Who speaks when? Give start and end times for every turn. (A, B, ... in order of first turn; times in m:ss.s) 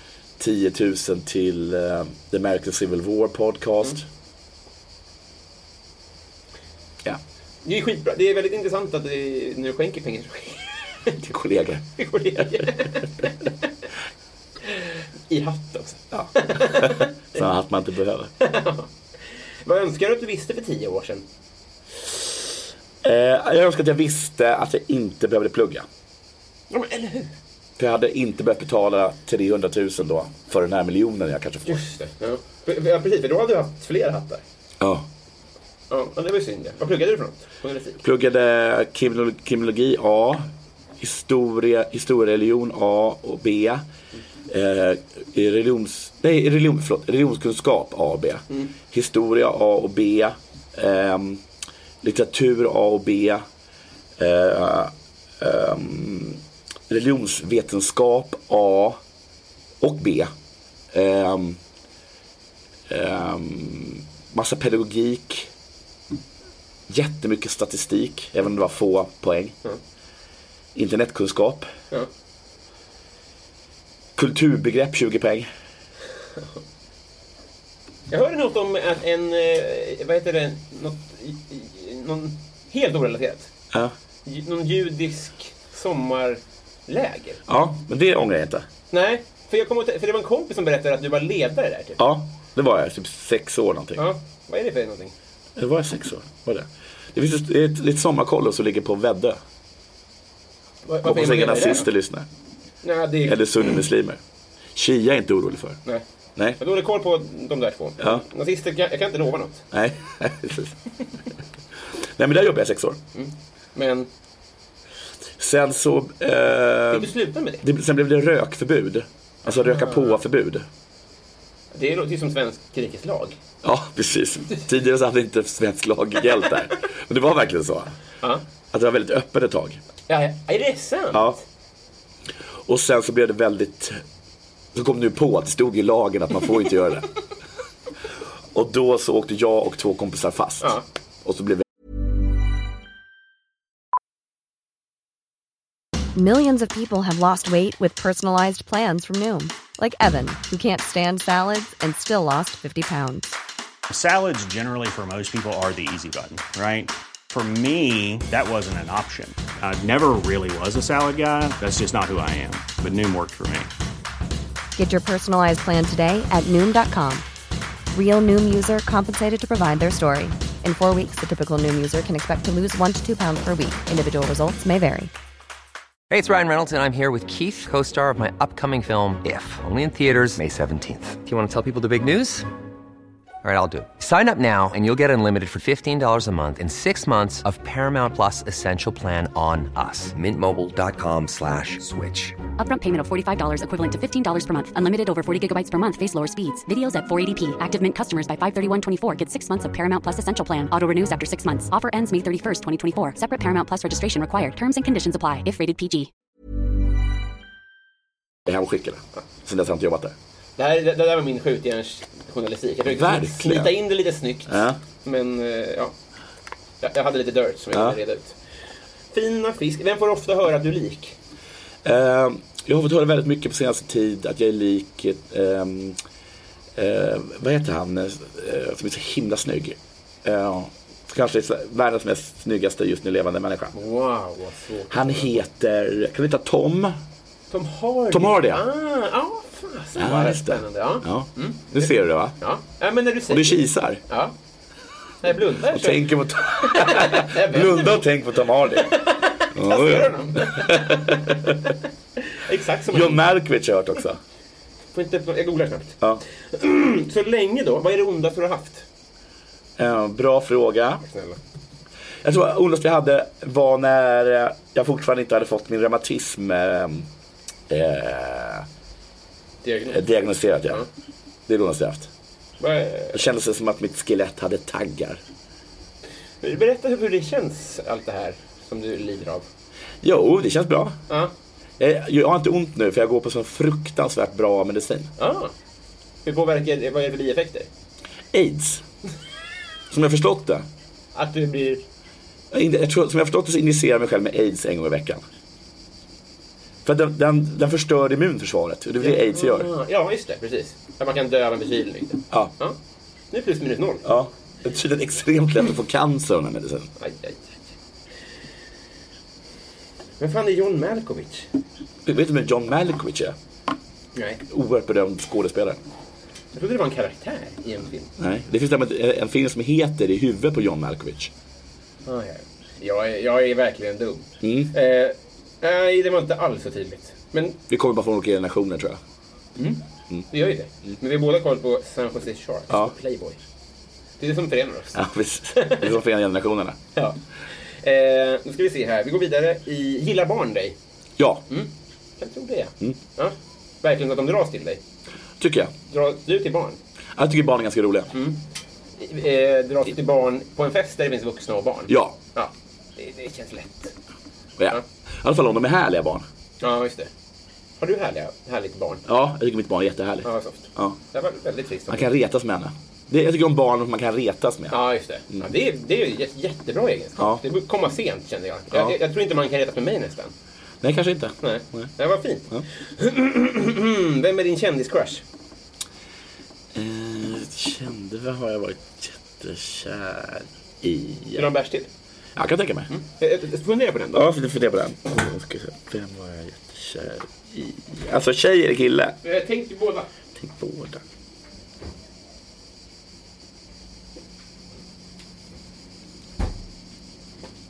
0:00.4-0:04.0 A
0:07.6-0:11.2 B
0:11.2-0:12.8 A
0:12.0-0:13.5 B
0:14.6-0:17.4 B
0:16.1-0:18.3 A
0:18.4-0:18.9 B
0:19.6-0:21.2 B
0:23.0-0:25.9 A
0:26.7-0:27.3 B
0:27.8-0:31.8 A
0:31.7-0:34.4 B
0:34.8-0:35.1 A
0:35.9-0:38.0 B
0:38.0-0:40.4 A
0:41.0-0:43.8 A
0:44.5-0:51.4 A
0:52.0-0:53.4 A
0:54.2-0:59.0 A
0:59.8-1:00.3 A
1:00.9-1:01.6 A
1:02.9-1:05.5 A
1:06.9-1:09.6 A
1:10.8-1:11.7 A
1:14.2-1:15.5 A
1:18.1-1:23.5 B
1:24.2-1:27.4 B
1:27.5-1:28.7 A
1:28.9-1:32.0 B
1:32.0-1:34.1 A
1:34.0-1:35.1 B
1:35.6-1:39.4 A
1:40.9-1:41.9 B
1:41.0-1:42.3 A
1:42.8-1:43.7 B
1:43.2-1:44.2 A
1:44.8-1:45.8 A
1:46.6-1:49.6 B
1:49.7-1:50.8 A
1:52.2-1:53.0 A
1:53.1-1:54.1 B
1:55.4-1:57.1 A
1:56.9-1:57.6 B
1:57.6-2:00.7 A
1:59.5-2:00.2 B
2:01.7-2:03.4 B
2:03.6-2:07.9 A
2:08.7-2:09.8 A
2:10.1-2:11.4 B
2:11.1-2:11.4 A
2:12.7-2:14.0 A
2:14.7-2:17.1 A
2:18.5-2:21.6 A
2:26.2-2:33.4 C
2:33.9-2:43.7 D
2:44.8-2:47.2 C
2:47.9-2:55.1 C
2:56.1-3:02.5 E
3:03.4-3:12.4 E
3:12.6-3:26.1 F
3:28.5-3:30.2 A
3:30.6-3:35.9 B
3:32.9-3:33.8 A
3:34.5-3:34.8 A
3:36.8-3:38.4 B
3:37.7-3:38.0 A
3:39.1-3:41.2 B
3:41.8-3:46.0 A
3:46.8-3:53.7 A
3:53.7-3:55.4 B
3:54.9-3:57.0 A
3:57.5-4:04.3 B
3:58.1-3:58.6 A
4:00.0-4:02.4 A
4:03.3-4:04.0 A
4:05.2-4:08.1 B
4:05.6-4:09.0 A
4:08.6-4:11.7 B
4:09.5-4:11.7 A
4:12.2-4:13.2 B
4:12.9-4:14.2 A
4:14.9-4:18.8 B
4:19.8-4:21.0 A
4:21.0-4:21.4 B
4:22.2-4:27.1 A
4:27.7-4:28.7 A
4:29.6-4:30.1 B
4:29.9-4:30.8 A
4:31.5-4:32.1 A
4:32.6-4:33.2 B
4:33.1-4:35.2 A
4:36.4-4:39.5 B
4:40.0-4:41.0 A
4:41.8-4:45.1 A
4:45.2-4:45.5 B
4:46.2-4:47.7 B
4:48.3-4:48.8 A
4:49.9-4:50.7 A
4:51.2-4:51.8 B
4:52.5-4:55.2 A
4:56.8-4:59.7 A
4:59.0-5:02.8 B
5:03.3-5:04.1 B
5:04.0-5:06.9 A
5:07.0-5:07.6 B
5:10.2-5:11.5 B
5:12.1-5:13.4 A
5:14.2-5:14.4 B
5:14.5-5:15.8 A
5:16.5-5:18.1 B
5:18.2-5:21.3 A
5:22.1-5:27.6 B
5:24.4-5:24.7 A
5:27.7-5:29.0 A
5:29.6-5:33.4 B
5:34.2-5:35.0 B
5:34.9-5:36.8 A
5:35.5-5:36.0 B
5:37.8-5:40.8 B
5:41.2-5:41.4 A
5:41.5-5:44.8 B
5:45.4-5:45.7 A
5:45.9-5:46.8 B
5:47.2-5:48.1 A
5:48.1-5:48.4 B
5:49.0-5:53.9 B
5:51.9-5:52.2 A
5:54.6-5:56.3 A
5:56.6-5:57.1 B
5:57.8-5:59.0 B
5:59.1-6:01.0 A
6:00.2-6:02.1 B
6:01.9-6:05.5 A
6:04.7-6:10.3 B
6:10.8-6:11.9 A
6:11.4-6:15.2 B
6:16.7-6:21.5 A
6:21.4-6:21.9 B
6:22.4-6:22.9 A
6:22.9-6:24.3 B
6:24.1-6:29.2 A
6:29.2-6:30.1 B
6:30.4-6:31.0 A